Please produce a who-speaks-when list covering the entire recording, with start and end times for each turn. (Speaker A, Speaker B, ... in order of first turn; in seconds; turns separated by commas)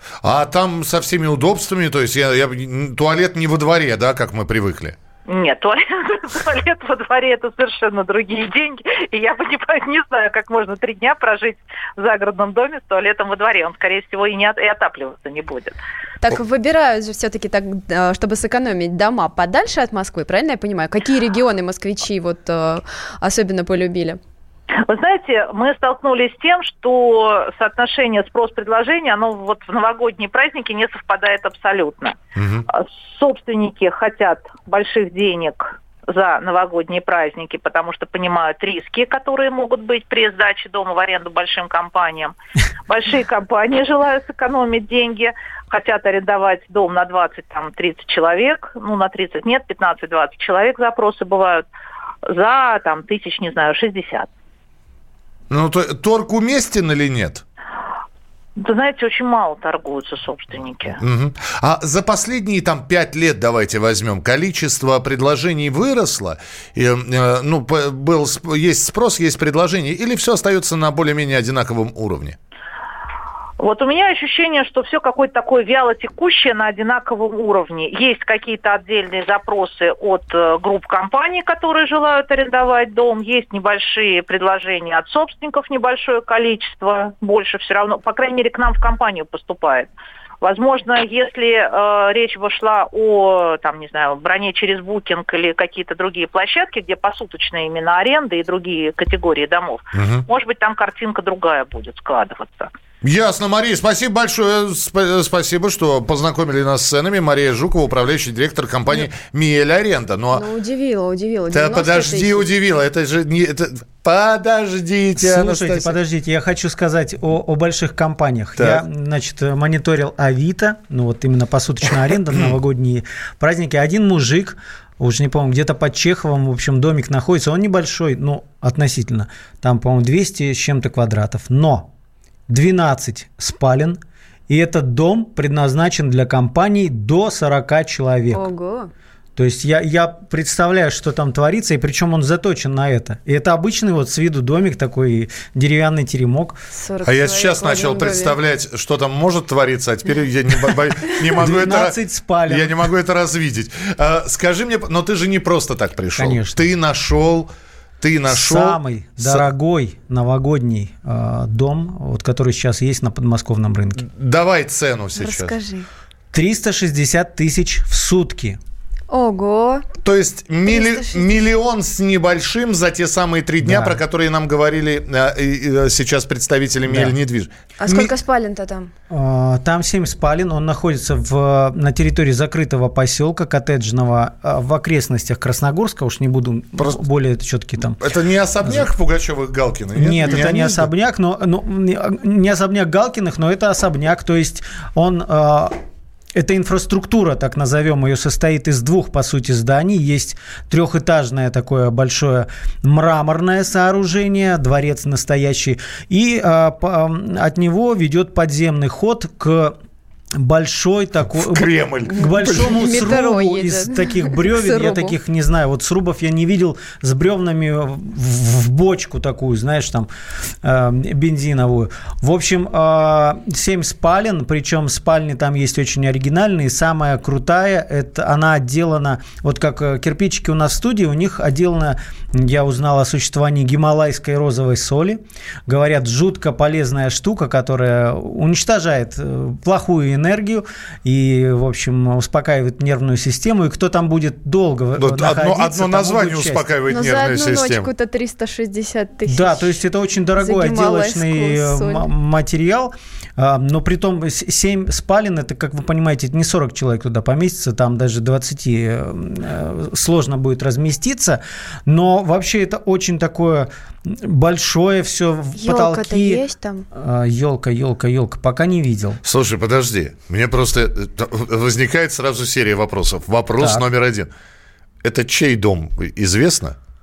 Speaker A: 0.2-5.0, Speaker B: 5.3-15.8, Speaker C: 16.2-24.2, Speaker B: 24.8-32.2, Speaker A: 32.4-32.7, Speaker B: 32.7-42.4, Speaker B: 42.9-51.7, Speaker B: 52.3-54.3, Speaker A: 55.5-57.4, Speaker B: 58.6-61.0, Speaker A: 61.0-72.4, Speaker B: 73.6-89.9, Speaker B: 90.4-102.7, Speaker A: 100.0-100.2, Speaker A: 103.0-110.4, Speaker C: 110.3-112.5, Speaker A: 111.5-116.0, Speaker D: 115.2-131.9, Speaker A: 118.6-118.8, Speaker D: 132.5-138.4, Speaker C: 138.3-138.9, Speaker D: 139.4-146.6, Speaker C: 146.7-148.4, Speaker A: 147.1-151.9, Speaker D: 151.4-152.8, Speaker A: 152.5-157.5, Speaker D: 156.2-156.6, Speaker A: 158.0-159.5, Speaker D: 158.3-164.0, Speaker A: 164.0-165.6, Speaker C: 165.2-165.9, Speaker D: 166.3-168.6, Speaker C: 169.1-169.9, Speaker A: 170.0-178.1, Speaker C: 170.7-171.5, Speaker D: 173.6-174.0, Speaker D: 176.9-177.2, Speaker C: 177.8-178.9, Speaker D: 179.1-188.0, Speaker A: 186.8-187.0, Speaker A: 188.0-190.9, Speaker D: 190.0-195.8, Speaker D: 196.4-209.8, Speaker D: 210.4-220.1, Speaker A: 211.3-212.8, Speaker C: 212.1-215.2, Speaker D: 220.6-246.7, Speaker A: 245.0-247.9, Speaker C: 246.9-249.8, Speaker D: 249.3-266.4, Speaker C: 250.4-252.1, Speaker C: 265.6-266.9, Speaker D: 266.9-269.2, Speaker A: 269.2-274.3, Speaker D: 273.6-273.8, Speaker A: 275.0-276.8